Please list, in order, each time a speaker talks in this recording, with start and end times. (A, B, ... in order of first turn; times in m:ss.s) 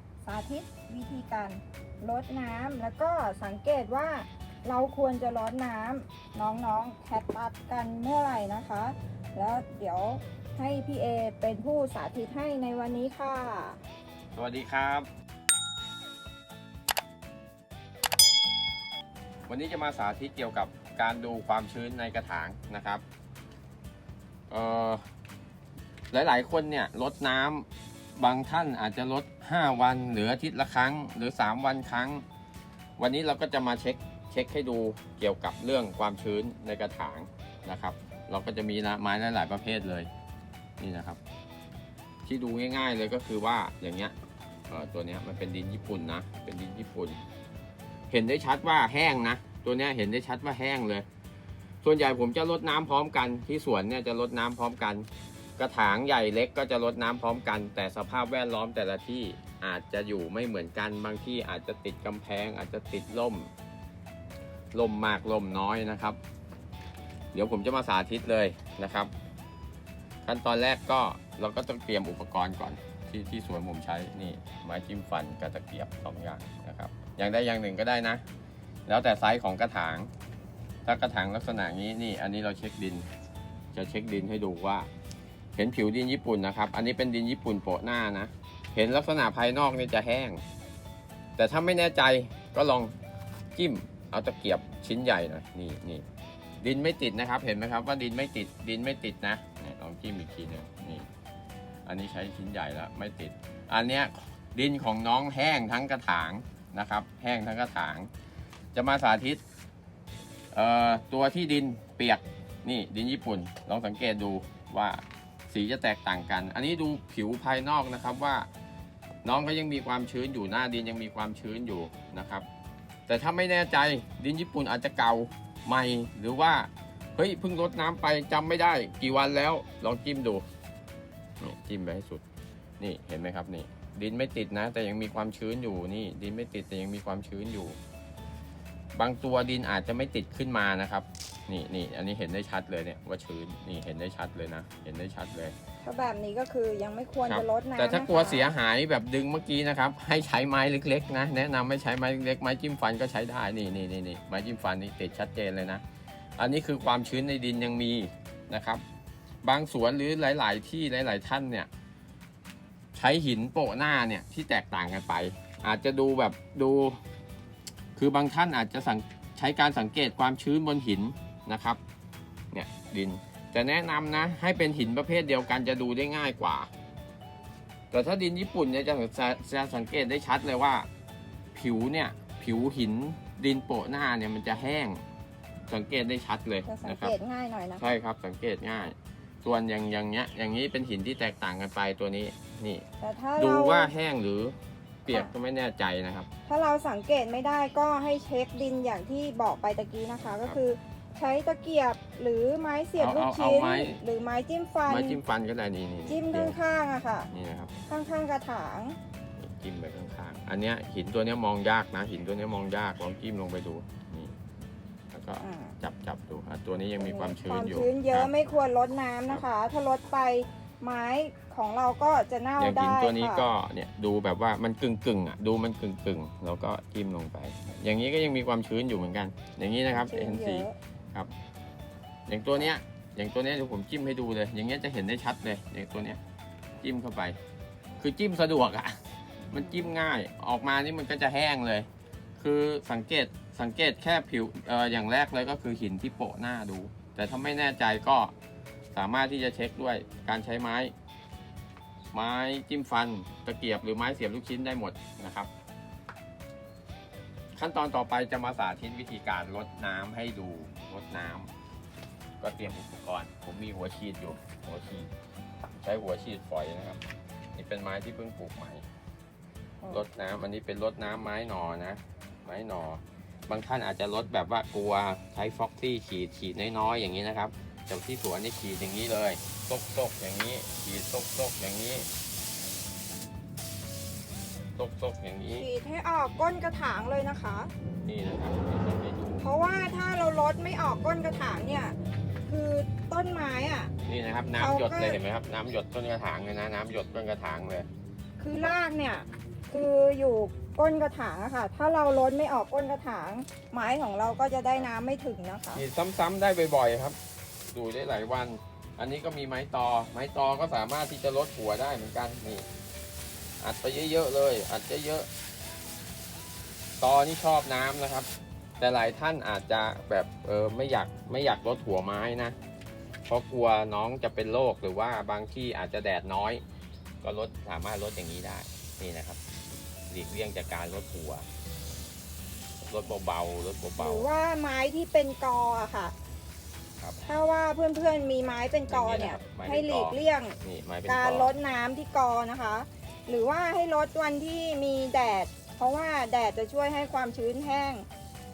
0:00.2-0:13.8 A
0:14.3-0:15.1 B
0:19.5-0:23.0 B
0:24.5-0:25.0 B
0:26.1-0:32.2 B
0:33.0-0:40.1 B
0:40.8-0:41.2 B
0:42.2-0:44.1 B
0:44.7-0:47.2 B
0:48.1-0:51.0 B
0:51.8-1:03.5 B
1:04.7-1:06.2 B
1:07.3-1:09.1 B
1:10.2-1:18.2 B
1:18.9-1:20.1 B
1:20.8-1:23.1 B
1:23.7-1:24.9 B
1:25.6-1:30.4 B
1:31.4-1:32.9 B
1:33.6-1:36.0 B
1:36.6-1:41.1 B
1:41.9-1:48.1 B
1:48.7-1:49.4 B
1:50.5-1:58.5 B
1:59.2-2:02.5 B
2:03.1-2:10.4 B
2:11.4-2:12.2 B
2:12.8-2:17.8 B
2:19.0-2:25.5 B
2:25.8-2:28.5 A
2:27.2-2:35.8 B
2:36.4-2:38.8 B
2:39.4-2:41.7 B
2:42.9-2:47.0 B
2:48.0-2:51.8 B
2:52.5-2:56.7 B
2:57.9-3:00.9 B
3:01.5-3:05.0 B
3:05.7-3:07.2 B
3:06.7-3:07.9 A
3:07.8-3:12.8 B
3:13.0-3:13.9 A
3:13.4-3:16.3 B
3:16.5-3:25.2 A
3:23.0-3:24.0 B
3:24.9-3:26.6 B
3:26.1-3:27.3 A
3:27.3-3:27.7 B
3:27.8-3:29.0 A
3:29.4-3:34.3 B
3:35.1-3:38.3 B
3:35.4-3:35.8 A
3:37.0-3:43.5 A
3:42.6-3:51.3 B
3:49.9-3:50.8 A
3:52.3-3:56.2 B
3:56.8-3:57.4 B
3:58.0-4:08.3 B
4:08.9-4:10.9 B
4:12.1-4:15.5 B
4:17.6-4:21.5 B
4:22.4-4:25.1 B
4:25.8-4:27.0 B
4:27.5-4:28.8 B
4:29.9-4:42.1 B
4:44.8-4:45.7 B
4:45.5-4:47.7 A
4:48.0-4:49.4 B
4:49.4-4:53.9 A
4:54.0-4:57.9 B
4:54.6-4:55.2 A
4:58.4-5:05.8 A
5:05.7-5:07.2 B
5:07.7-5:12.7 B
5:13.6-5:15.3 B
5:17.0-5:18.3 B
5:18.8-5:22.6 B
5:23.3-5:26.6 B
5:27.2-5:29.4 B
5:30.1-5:31.4 B
5:32.8-5:34.3 B
5:34.0-5:36.1 A
5:37.2-5:48.0 A
5:38.9-5:41.5 B